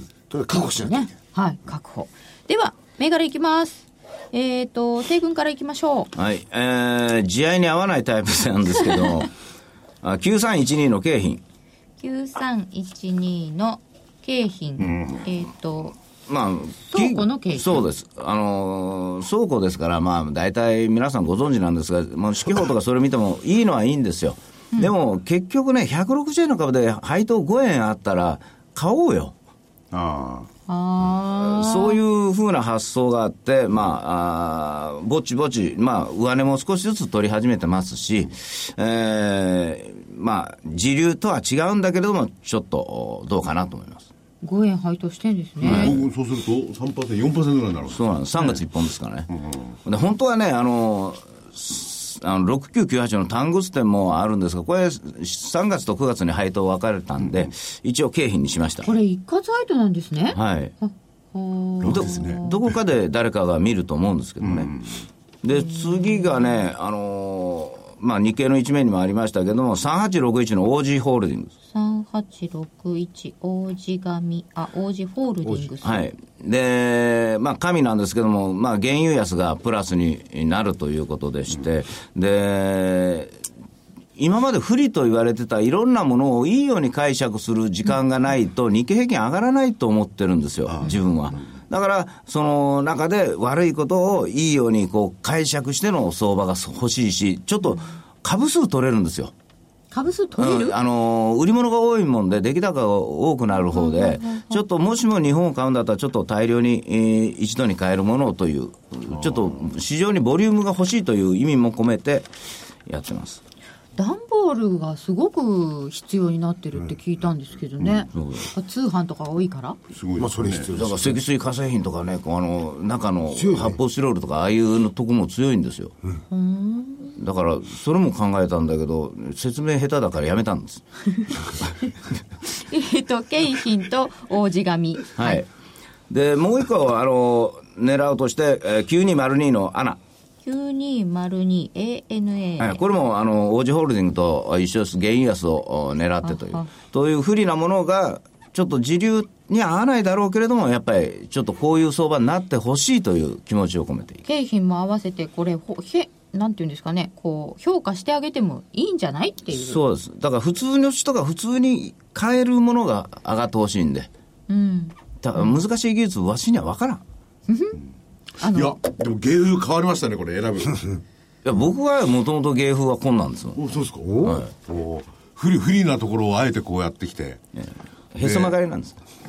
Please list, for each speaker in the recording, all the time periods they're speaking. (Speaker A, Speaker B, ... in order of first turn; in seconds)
Speaker A: 0.3-1.1, 75.4-75.7, 120.2-121.2, 123.3-123.8, 174.0-174.4
Speaker B: 0.5-6.1, 12.0-16.0, 16.9-17.8, 30.7-32.0, 44.4-45.9, 58.8-62.5, 65.5-66.5, 71.7-76.1, 99.9-100.8, 103.6-104.6, 114.0-119.8, 126.3-127.2, 132.5-135.4, 140.4-142.8, 146.2-146.7, 154.2-159.8, 164.5-165.6, 167.5-167.8, 168.4-168.8
Speaker C: 6.1-9.3, 10.0-11.4, 16.3-29.3, 31.4-44.1, 45.6-46.0, 47.9-49.3, 49.8-58.9, 60.3-60.7, 61.8-64.7, 65.4-71.5, 75.8-83.4, 84.2-99.3, 100.4-112.3, 112.9-113.4, 118.1-118.5, 120.7-125.9, 127.2-130.8, 135.2-135.5, 136.1-140.0, 142.6-154.2, 159.5-164.1, 165.2-167.0, 171.4-173.6, 174.2-174.5, 177.6-179.0
Speaker D: 14.8-15.2, 29.9-30.5, 45.6-48.6, 49.3-49.6, 57.2-57.5, 61.8-62.5, 64.4-64.9, 109.1-109.6, 117.8-118.1, 119.9-120.7, 168.5-170.8, 173.6-177.4, 178.2-178.5